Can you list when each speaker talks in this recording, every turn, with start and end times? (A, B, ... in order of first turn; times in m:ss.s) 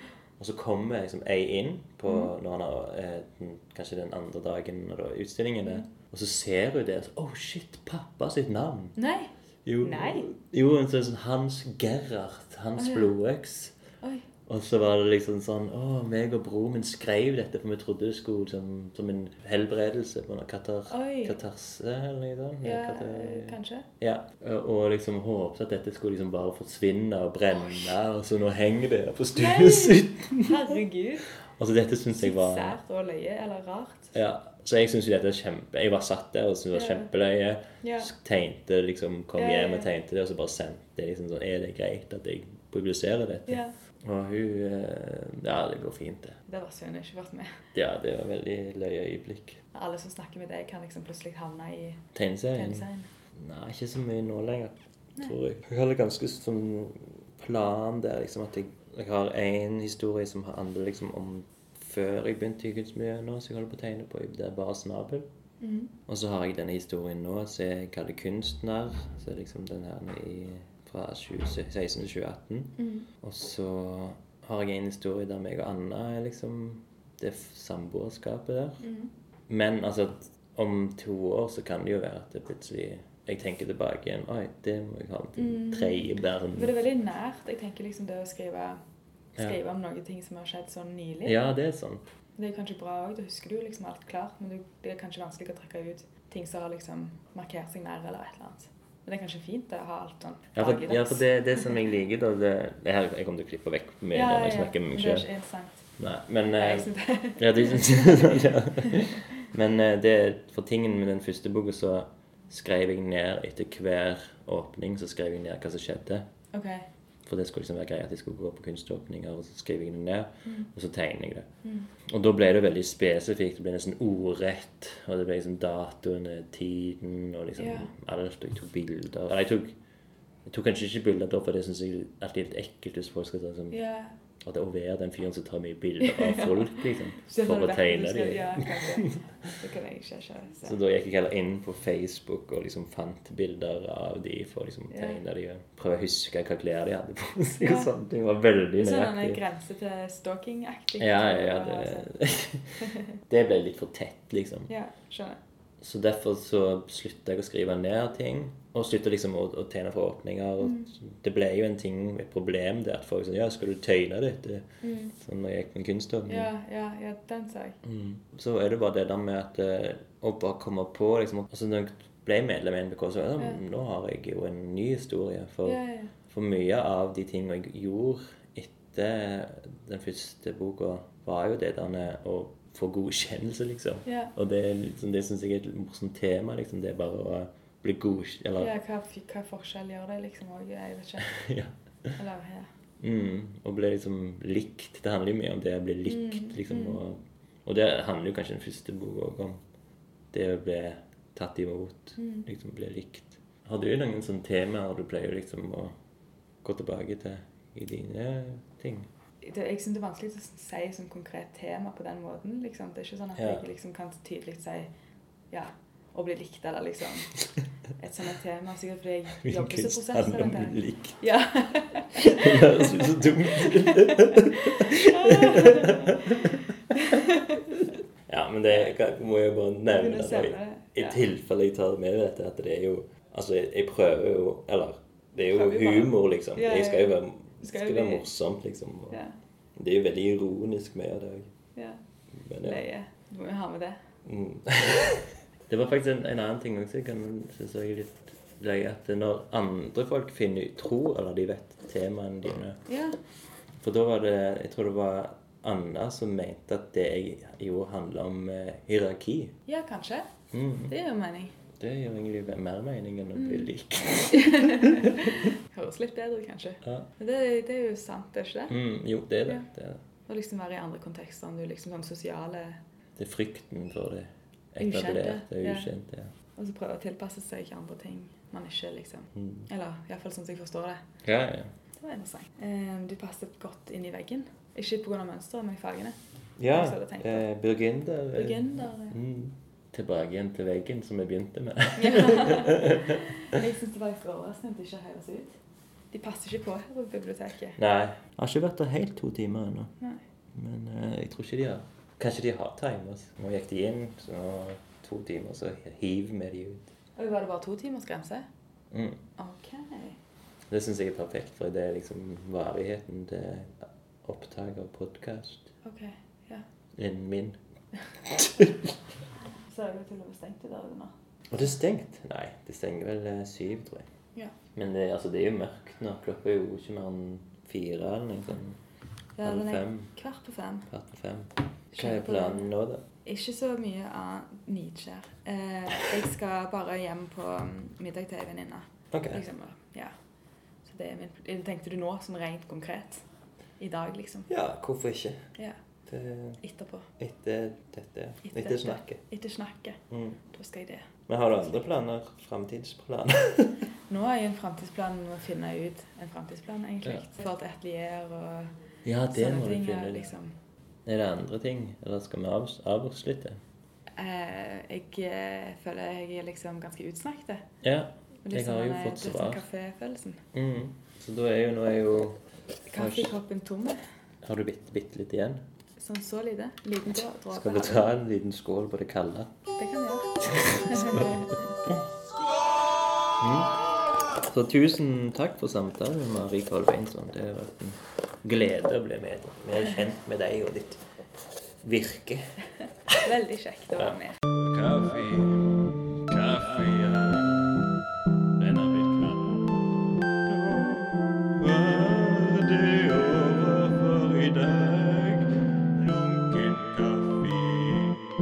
0:00.4-0:08.9 A
0:09.0-0:10.3 B
0:09.6-0:13.8 A
0:12.8-0:13.1 B
0:14.0-0:14.3 B
0:14.4-0:30.8 A
0:20.9-0:21.4 B
0:22.6-0:23.9 B
0:29.3-0:31.3 B
0:31.5-0:32.8 A
0:32.1-0:34.2 B
0:34.1-0:46.4 A
0:36.7-0:37.1 B
0:37.8-0:38.1 B
0:39.4-0:39.9 B
0:43.5-0:43.7 B
0:46.5-0:47.5 B
0:47.7-0:49.6 A
0:49.7-0:52.0 B
0:52.1-1:05.2 A
0:52.5-0:53.1 B
1:05.6-1:05.9 B
1:06.1-1:18.8 A
1:12.8-1:13.1 B
1:18.8-1:19.1 B
1:19.5-1:26.7 A
1:25.4-1:28.8 B
1:29.4-1:31.4 B
1:31.2-1:32.0 A
1:32.4-1:41.7 B
1:40.5-1:45.3 A
1:44.1-1:45.8 B
1:46.0-1:56.2 A
1:46.5-1:49.2 B
1:56.5-1:56.8 B
1:57.2-2:01.5 A
2:02.0-2:09.8 A
2:07.6-2:07.9 B
2:10.4-2:13.8 A
2:13.7-2:14.1 B
2:14.4-2:19.2 A
2:16.0-2:20.8 B
2:20.6-2:29.4 A
2:24.9-2:25.2 B
2:27.6-2:27.9 B
2:28.8-2:32.1 B
2:31.0-2:34.7 A
2:34.7-2:35.4 B
2:35.8-2:46.5 A
2:40.6-2:40.9 B
2:44.8-2:45.1 B
2:46.3-2:47.8 B
2:47.8-3:08.7 A
2:55.6-2:56.1 B
3:04.0-3:04.3 B
3:08.6-3:11.3 B
3:11.2-3:12.1 A
3:12.2-3:12.7 B
3:13.0-3:19.6 A
3:16.0-3:17.0 B
3:20.3-3:25.9 A
3:22.2-3:22.4 B
3:26.6-3:29.1 A
3:29.4-3:34.9 B
3:33.4-3:33.6 A
3:35.5-3:37.4 B
3:38.0-3:47.6 B
3:39.4-3:41.2 A
3:42.1-3:46.6 A
3:48.3-3:59.2 A
3:49.9-3:51.2 B
3:55.4-3:58.3 B
3:59.1-3:59.4 B
3:59.8-4:01.5 A
4:01.8-4:02.0 B
4:02.3-4:02.8 A
4:02.6-4:04.0 B
4:04.2-4:12.8 A
4:12.8-4:13.2 B
4:13.8-4:19.6 A
4:19.6-4:20.3 B
4:20.5-4:20.9 A
4:20.9-4:21.6 B
4:21.8-4:25.3 A
4:23.4-4:23.7 B
4:24.3-4:28.7 B
4:28.7-4:30.0 A
4:30.3-4:32.8 B
4:33.2-4:36.3 A
4:34.8-4:35.9 B
4:36.6-4:41.0 B
4:39.4-4:39.6 A
4:41.2-4:41.7 A
4:42.0-4:46.2 B
4:46.6-4:53.2 A
4:46.7-4:47.4 B
4:48.3-4:49.2 B
4:52.0-4:55.6 B
4:56.1-4:57.8 B
4:57.8-4:59.9 A
5:00.5-5:06.9 A
5:07.2-5:08.4 B
5:08.9-5:09.2 A
5:09.4-5:10.2 B
5:10.7-5:15.7 A
5:15.8-5:16.6 B
5:17.0-5:17.6 A
5:18.2-5:18.9 A
5:19.7-5:21.1 B
5:21.5-5:24.1 A
5:24.7-5:28.8 A
5:29.4-5:30.9 B
5:29.4-5:30.1 A
5:30.9-5:33.0 A
5:31.9-5:32.7 B
5:33.2-5:40.1 B
5:39.1-5:39.4 A
5:40.8-5:43.2 B
5:43.8-5:44.5 B
5:44.5-5:45.5 A
5:46.1-5:46.6 A
5:46.6-5:47.1 B
5:47.2-5:49.2 A
5:48.4-5:51.1 B
5:50.1-5:50.4 A
5:51.3-5:53.8 A
5:54.1-5:58.7 B
5:59.0-6:00.3 A
5:59.3-6:00.5 B
6:01.0-6:03.6 A
6:04.2-6:07.6 B
6:07.8-6:09.6 A
6:08.4-6:10.4 B
6:10.5-6:12.4 A
6:12.9-6:14.0 B
6:13.0-6:13.4 A
6:14.4-6:15.6 A
6:16.0-6:18.1 B
6:17.5-6:19.5 A
6:19.8-6:21.7 B
6:20.6-6:22.0 A
6:23.4-6:23.8 A
6:24.4-6:31.0 A
6:31.8-6:32.5 A
6:33.2-6:34.4 B
6:34.0-6:35.7 A
6:36.2-6:37.7 A
6:38.6-6:39.8 A
6:40.4-6:48.3 A